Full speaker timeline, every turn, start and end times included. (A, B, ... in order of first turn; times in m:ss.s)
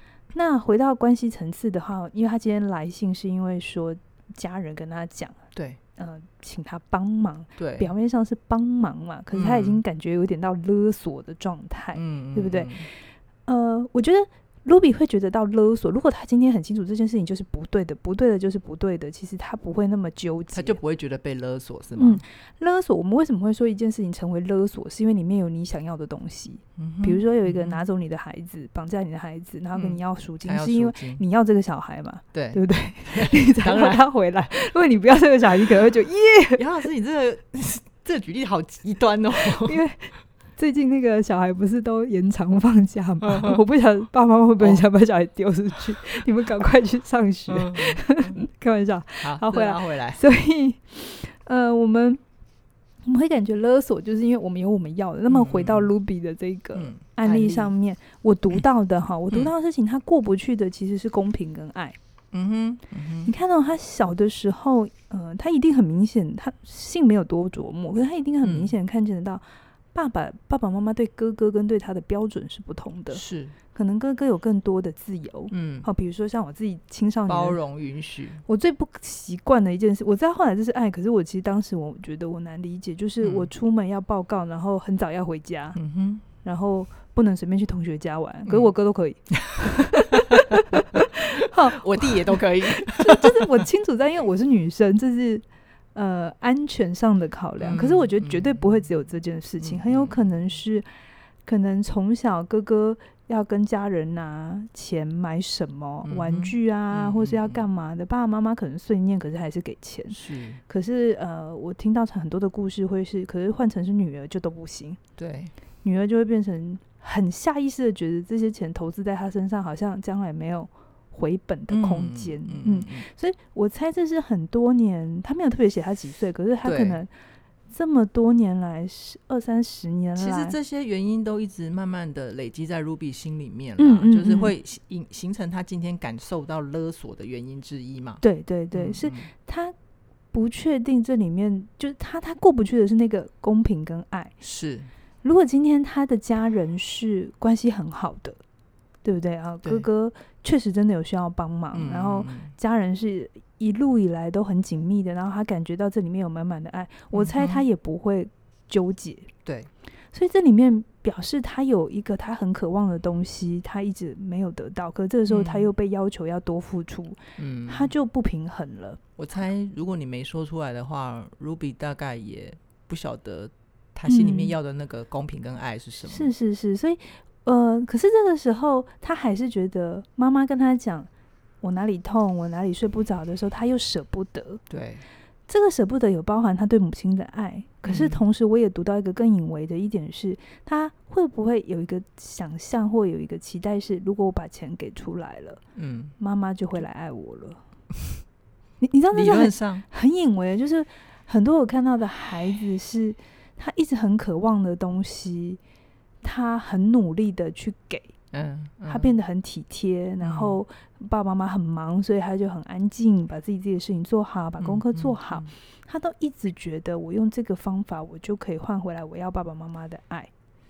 0:00.3-0:05.4 A
0:06.0-0:20.8 A
0:07.6-0:07.9 B
0:09.3-0:09.8 B
0:11.9-0:12.9 B
0:20.5-0:22.2 B
0:22.0-0:36.6 A
0:26.8-0:27.8 B
0:29.7-0:31.2 B
0:32.3-0:34.0 B
0:36.6-0:39.8 B
0:39.4-0:52.2 A
0:43.2-0:43.6 B
0:47.5-0:48.4 B
0:49.2-0:50.2 B
0:53.0-1:02.0 A
0:55.3-0:55.9 B
0:56.8-0:57.7 B
1:02.3-1:03.3 B
1:03.2-1:13.2 A
1:08.4-1:08.7 B
1:13.1-1:13.6 B
1:13.7-1:17.6 A
1:15.5-1:15.9 B
1:17.3-1:18.4 B
1:18.5-1:25.8 A
1:23.2-1:23.5 B
1:25.8-1:26.2 B
1:26.4-1:30.6 A
1:29.3-1:33.6 B
1:31.4-1:40.9 A
1:37.6-1:38.7 B
1:39.6-1:40.2 B
1:41.4-1:55.0 A
1:46.0-1:47.6 B
1:50.1-1:50.6 B
1:55.2-1:55.5 B
1:55.8-2:07.1 A
2:01.7-2:03.1 B
2:06.6-2:07.0 B
2:07.7-2:10.6 A
2:10.2-2:19.3 B
2:13.8-2:14.5 A
2:18.2-2:19.8 A
2:20.3-2:24.4 A
2:24.4-2:24.9 B
2:25.2-2:28.4 A
2:29.0-2:39.3 A
2:31.7-2:32.5 B
2:37.1-2:37.6 B
2:39.4-2:39.7 B
2:40.1-2:49.0 A
2:45.3-2:45.7 B
2:47.4-2:47.9 B
2:49.2-2:56.3 B
2:54.1-2:54.5 A
2:56.1-3:01.1 A
3:01.6-3:04.6 A
3:04.7-3:05.0 B
3:05.5-3:15.6 A
3:07.8-3:08.2 B
3:15.8-3:16.1 B
3:16.2-3:17.6 A
3:18.8-3:25.6 A
3:19.1-3:19.8 B
3:26.2-3:28.2 A
3:28.3-3:29.1 B
3:28.9-3:40.3 A
3:30.2-3:30.6 B
3:34.6-3:35.5 B